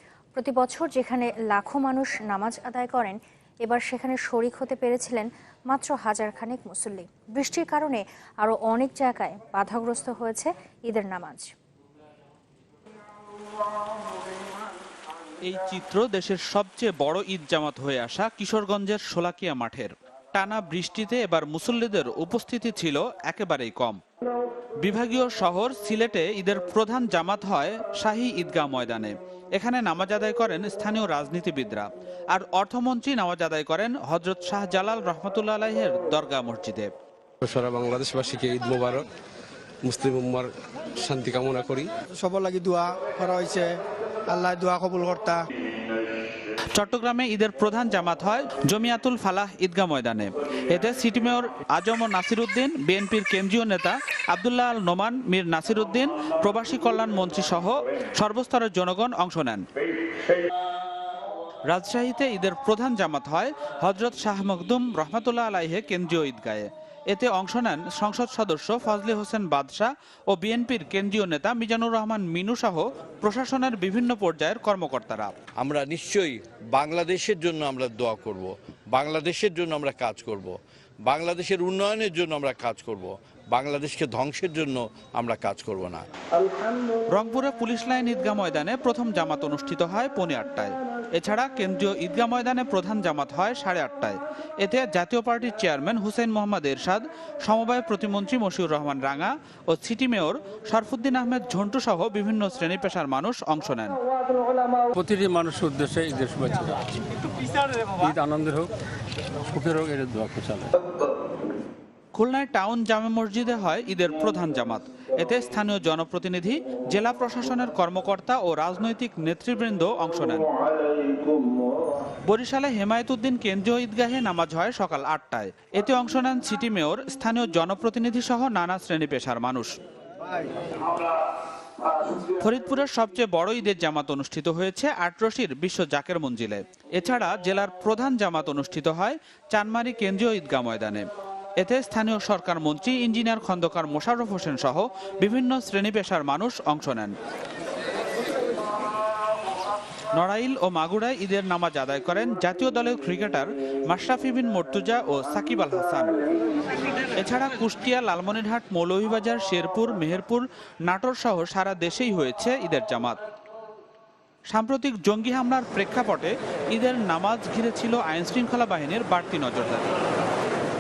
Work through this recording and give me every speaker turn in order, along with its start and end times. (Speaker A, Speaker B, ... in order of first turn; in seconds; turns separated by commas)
Speaker A: 0.3-11.5, Speaker B: 15.4-24.0, Speaker B: 24.8-36.9, Speaker C: 37.4-39.1, Speaker C: 39.8-41.9, Speaker D: 42.2-43.7, Speaker D: 44.3-45.4, Speaker B: 46.8-59.6, Speaker B: 61.7-75.3, Speaker E: 75.6-80.5, Speaker E: 81.1-86.0, Speaker B: 87.1-104.0, Speaker F: 104.9-107.0, Speaker F: 107.8-108.7, Speaker F: 109.5-110.7, Speaker B: 112.2-120.5, Speaker B: 122.3-129.7, Speaker D: 130.2-130.5, Speaker B: 132.1-141.1, Speaker B: 141.6-147.1, Speaker B: 150.2-156.2, Speaker B: 157.2-163.2, Speaker B: 164.5-169.9